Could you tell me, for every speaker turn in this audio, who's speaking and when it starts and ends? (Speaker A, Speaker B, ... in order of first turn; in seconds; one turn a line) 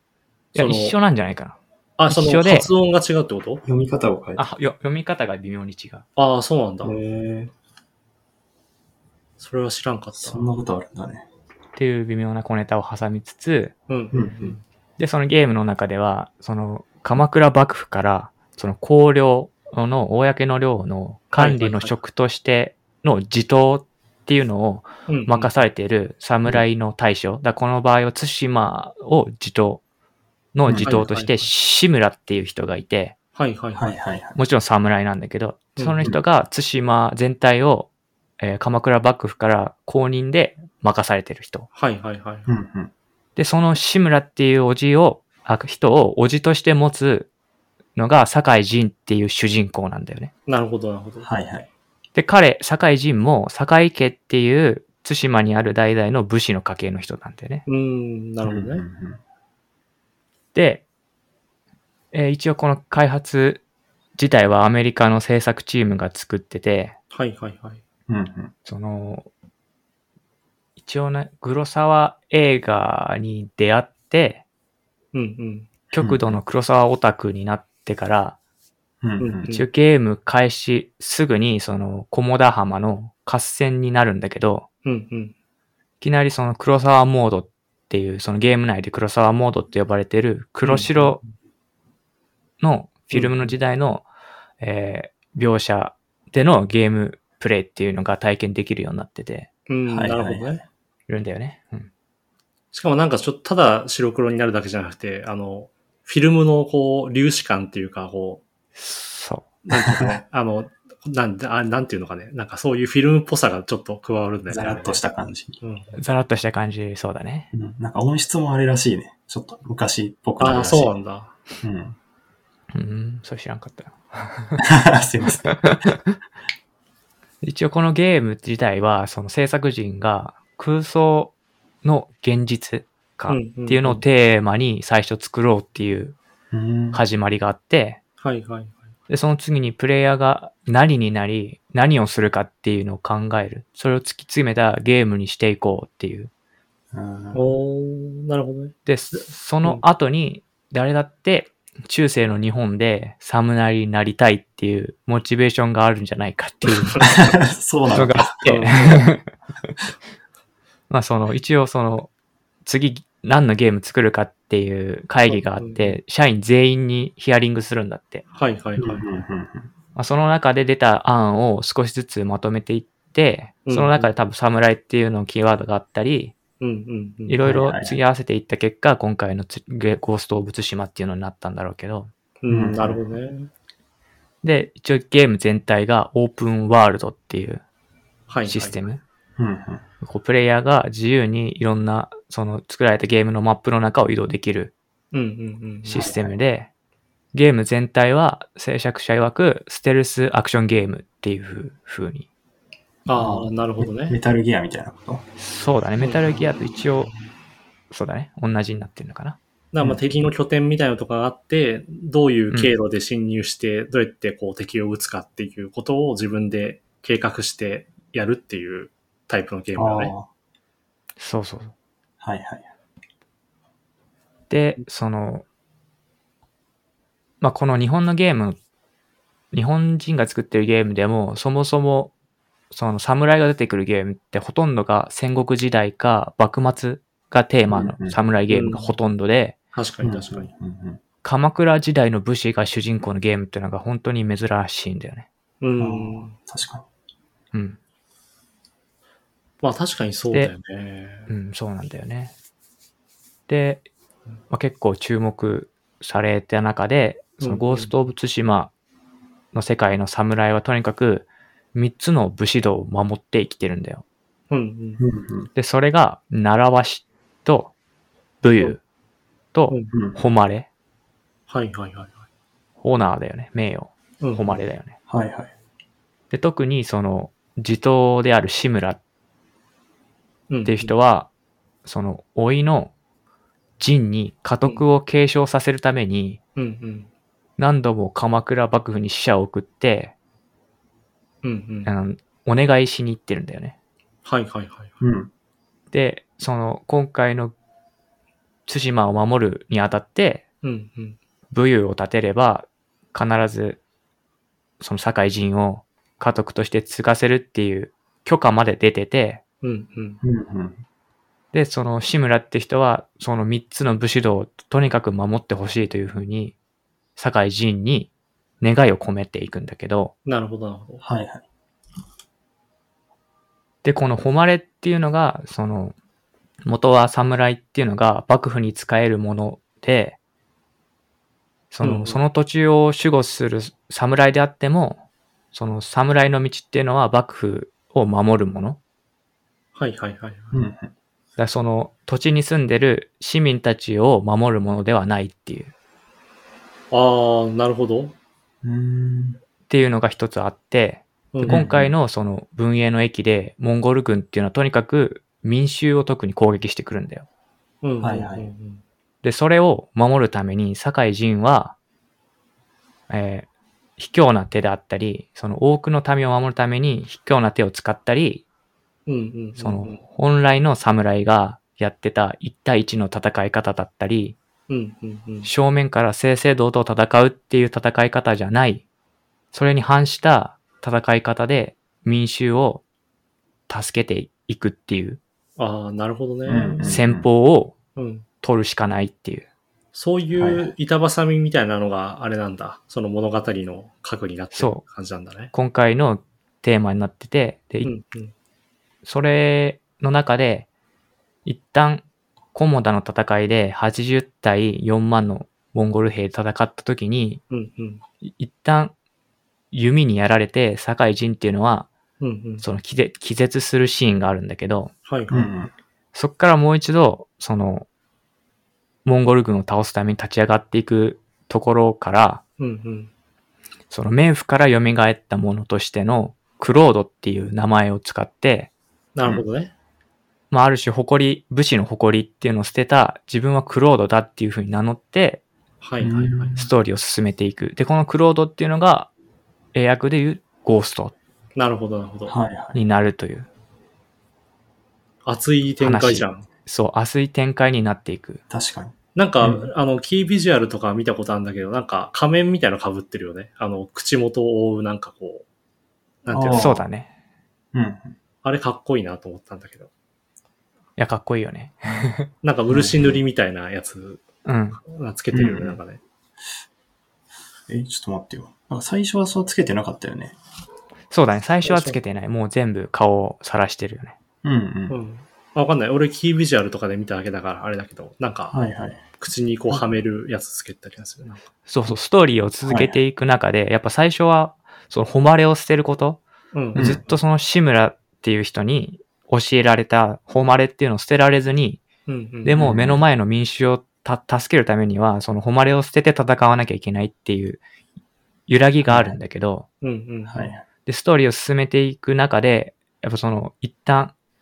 Speaker A: 0.5-0.9
Speaker B: 0.5-1.6
Speaker A: 2.0-3.6
Speaker B: 2.1-2.7
Speaker C: 3.6-4.5
Speaker B: 4.4-6.0
Speaker A: 6.2-7.0
Speaker C: 6.8-7.5
Speaker A: 9.4-10.5
Speaker C: 10.2-11.3
Speaker B: 11.8-13.7
Speaker A: 13.9-14.6
Speaker C: 14.1-14.6
Speaker B: 15.0-29.8
Speaker A: 21.3-21.9
Speaker A: 25.1-25.5
Speaker B: 30.5-33.1
Speaker C: 30.6-31.0
Speaker A: 30.8-31.5
Speaker A: 33.4-33.9
Speaker C: 33.8-34.4
Speaker B: 34.4-41.7
Speaker A: 35.8-36.0
Speaker A: 41.7-42.5
Speaker C: 42.5-42.9
Speaker B: 43.4-47.3
Speaker B: 48.0-50.3
Speaker A: 50.5-51.3
Speaker C: 51.2-51.7
Speaker B: 52.1-57.6
Speaker A: 57.7-58.8
Speaker C: 58.4-59.2
Speaker B: 60.5-60.8
Speaker B: 62.1-63.6
Speaker B: 64.2-67.0
Speaker A: 67.1-67.8
Speaker C: 68.1-68.5
Speaker B: 68.7-69.3
Speaker B: 70.8-74.4
Speaker A: 75.1-75.7
Speaker B: 75.9-78.4
Speaker C: 76.0-76.4
Speaker C: 79.0-79.5
Speaker A: 79.2-79.6
Speaker B: 79.5-84.7
Speaker A: 84.8-85.3
Speaker B: 86.0-91.2
Speaker A: 90.6-91.2
Speaker B: 92.6-94.0
Speaker A: 93.1-93.5
Speaker B: 94.6-99.5
Speaker A: 99.7-100.6
Speaker C: 99.9-100.6
Speaker B: 101.1-101.9
Speaker A: 102.7-108.4
Speaker B: 108.8-109.5
Speaker A: 109.6-115.0
Speaker C: 114.5-115.6
Speaker A: 115.6-116.0
Speaker B: 116.0-117.5
Speaker C: 117.5-120.9
Speaker A: 120.4-121.3
Speaker C: 121.6-122.0
Speaker B: 122.7-124.6
Speaker C: 124.6-125.9
Speaker B: 125.5-126.0
Speaker B: 127.4-136.2
Speaker A: 133.3-134.0
Speaker C: 136.5-137.0
Speaker B: 136.9-138.0
Speaker A: 138.2-138.8
Speaker B: 139.1-146.3
Speaker C: 146.9-147.4
Speaker A: 147.3-149.8
Speaker B: 148.8-157.1
Speaker A: 156.7-157.2
Speaker C: 157.1-158.4
Speaker B: 157.9-159.2
Speaker A: 158.4-159.1
Speaker B: 160.9-162.1
Speaker B: 162.6-168.2
Speaker A: 165.3-166.0
Speaker A: 168.3-169.2
Speaker C: 168.8-169.7
Speaker B: 169.9-176.3
Speaker A: 173.7-174.1
Speaker A: 176.6-177.4
Speaker B: 177.3-182.1
Speaker C: 177.4-178.0
Speaker A: 182.4-183.5
Speaker C: 182.5-183.1
Speaker B: 184.4-187.6
Speaker A: 188.3-188.8
Speaker B: 188.5-189.0
Speaker C: 189.4-189.8
Speaker B: 190.0-194.7
Speaker A: 195.1-196.0
Speaker B: 195.8-196.7
Speaker C: 195.9-196.3
Speaker B: 197.3-202.3
Speaker A: 203.1-204.2
Speaker C: 203.1-205.2
Speaker B: 205.4-207.1
Speaker B: 207.9-209.4
Speaker A: 209.7-220.1
Speaker C: 219.7-220.3
Speaker B: 221.2-221.7
Speaker C: 222.2-222.7
Speaker B: 224.5-225.4
Speaker B: 227.4-228.6
Speaker B: 229.5-232.1
Speaker B: 232.7-239.6
Speaker C: 237.7-238.2
Speaker A: 238.5-238.9
Speaker A: 239.7-240.5
Speaker C: 240.0-241.0
Speaker B: 241.2-245.3
Speaker A: 245.6-246.3
Speaker C: 245.8-246.8
Speaker B: 247.5-247.8
Speaker A: 249.6-251.3
Speaker B: 251.3-252.3
Speaker B: 253.5-253.8
Speaker B: 254.5-258.7
Speaker A: 257.4-257.9
Speaker B: 259.5-264.0
Speaker A: 264.5-265.0
Speaker C: 265.0-265.5
Speaker B: 265.6-267.7
Speaker B: 268.4-268.8
Speaker B: 269.5-270.7
Speaker C: 269.9-270.2
Speaker A: 271.5-272.2
Speaker B: 272.8-274.9
Speaker A: 274.2-274.6
Speaker C: 275.1-275.5
Speaker B: 276.3-279.0
Speaker A: 280.5-280.9
Speaker B: 280.6-281.3
Speaker B: 281.8-282.9
Speaker B: 283.8-286.4
Speaker A: 286.6-287.1
Speaker B: 287.6-290.1
Speaker A: 291.4-291.9
Speaker B: 291.9-293.7
Speaker A: 294.2-294.9
Speaker C: 295.0-295.3
Speaker B: 295.9-297.5
Speaker B: 298.7-300.4
Speaker A: 300.6-301.2
Speaker B: 301.5-303.8
Speaker B: 304.8-309.4
Speaker A: 309.6-310.2
Speaker C: 310.2-310.8
Speaker B: 311.5-316.5
Speaker B: 317.1-320.1
Speaker A: 320.2-321.0
Speaker C: 321.0-321.4
Speaker B: 323.8-325.9
Speaker B: 326.6-330.2
Speaker B: 331.7-338.8
Speaker A: 331.8-332.2
Speaker A: 339.7-340.6
Speaker C: 340.5-340.9
Speaker B: 341.4-345.7
Speaker A: 346.9-348.1
Speaker C: 348.6-349.4
Speaker B: 349.7-357.2
Speaker A: 351.3-351.6
Speaker C: 351.4-351.9
Speaker A: 357.8-358.8
Speaker C: 358.0-358.5
Speaker B: 359.2-361.8
Speaker B: 363.1-368.4
Speaker A: 369.1-370.0
Speaker B: 369.6-374.4
Speaker A: 374.7-375.5
Speaker B: 375.4-378.8
Speaker B: 379.5-382.8
Speaker B: 383.7-385.2
Speaker A: 385.6-386.9
Speaker C: 386.5-387.3
Speaker B: 386.8-387.8
Speaker A: 387.9-388.2
Speaker B: 388.4-389.5
Speaker A: 389.9-395.5
Speaker C: 390.4-390.7
Speaker B: 394.5-394.8
Speaker B: 395.5-397.9
Speaker A: 397.8-398.3
Speaker B: 399.0-400.7
Speaker B: 401.4-402.0
Speaker B: 402.5-407.4
Speaker A: 407.5-408.0
Speaker B: 408.2-408.9
Speaker B: 409.7-411.9
Speaker A: 412.2-412.6
Speaker B: 412.6-414.9
Speaker A: 415.0-415.5
Speaker C: 415.3-415.7
Speaker B: 416.1-417.9
Speaker B: 419.0-422.4
Speaker A: 422.6-423.1
Speaker B: 423.9-428.7
Speaker A: 429.1-429.7
Speaker B: 430.5-435.4
Speaker A: 435.8-436.6
Speaker C: 436.0-436.7
Speaker B: 436.6-439.1
Speaker B: 439.7-441.1
Speaker A: 441.6-442.3
Speaker C: 442.3-442.8
Speaker B: 442.7-443.5
Speaker A: 445.2-446.4
Speaker B: 445.8-448.4
Speaker C: 448.5-449.7
Speaker A: 449.1-455.4
Speaker A: 456.2-456.8
Speaker C: 456.3-456.8
Speaker B: 456.5-457.1
Speaker C: 457.7-458.1
Speaker A: 458.4-459.9
Speaker B: 461.0-462.3
Speaker A: 462.4-464.2
Speaker C: 462.7-463.2
Speaker B: 464.4-464.8
Speaker A: 464.8-466.0
Speaker C: 465.3-465.8
Speaker C: 467.7-470.4
Speaker B: 471.1-474.1
Speaker A: 471.6-472.0
Speaker C: 474.4-474.9
Speaker A: 474.9-478.5
Speaker C: 478.5-479.0
Speaker A: 479.2-481.4
Speaker B: 481.7-486.2
Speaker C: 482.6-483.0
Speaker A: 486.5-487.0
Speaker B: 486.7-491.8
Speaker C: 486.8-487.0
Speaker A: 492.1-492.6
Speaker B: 492.4-497.6
Speaker C: 492.6-493.0
Speaker B: 498.5-499.7
Speaker C: 498.8-499.2
Speaker A: 499.8-500.6
Speaker C: 500.3-500.6
Speaker B: 500.9-504.1